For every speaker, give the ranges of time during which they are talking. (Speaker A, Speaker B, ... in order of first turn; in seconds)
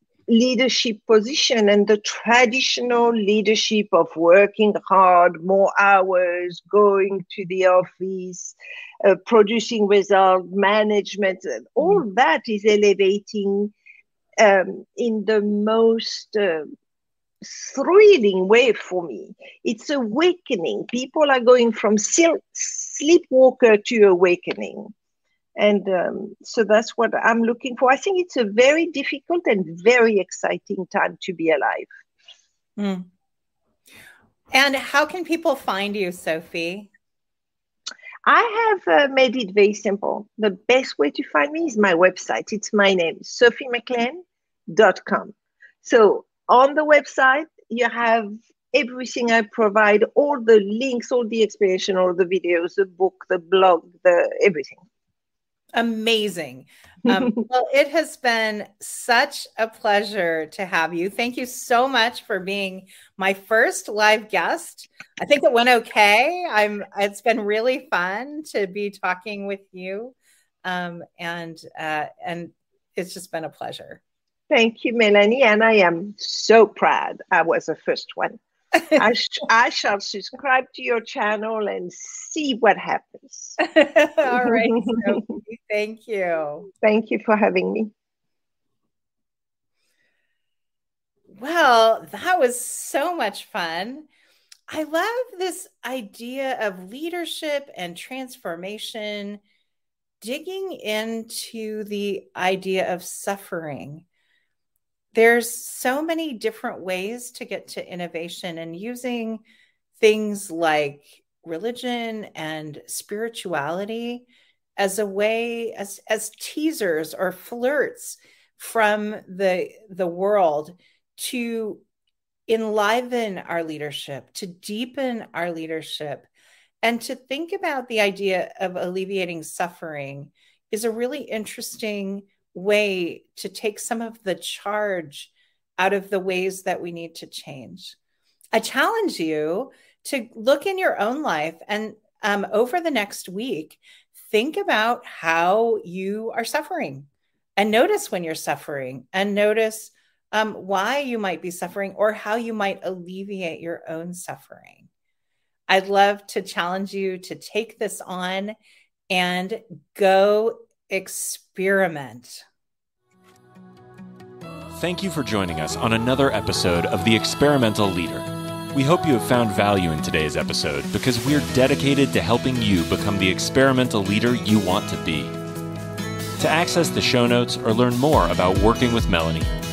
Speaker A: 0.3-13.7, 14.4-16.7, 17.4-24.9, 25.6-31.9, 38.3-54.8, 74.5-78.4, 79.0-83.6, 84.4-85.2, 86.8-87.9
Speaker B: 32.8-33.1, 34.5-36.9, 55.8-74.0, 83.6-86.7, 91.3-94.1, 94.7-99.4, 100.2-104.0, 105.1-109.4, 110.0-114.3, 114.8-121.8, 122.5-126.3, 126.8-137.9, 138.5-154.9, 155.7-158.6, 159.1-162.4
Speaker C: 164.8-175.3, 176.4-179.5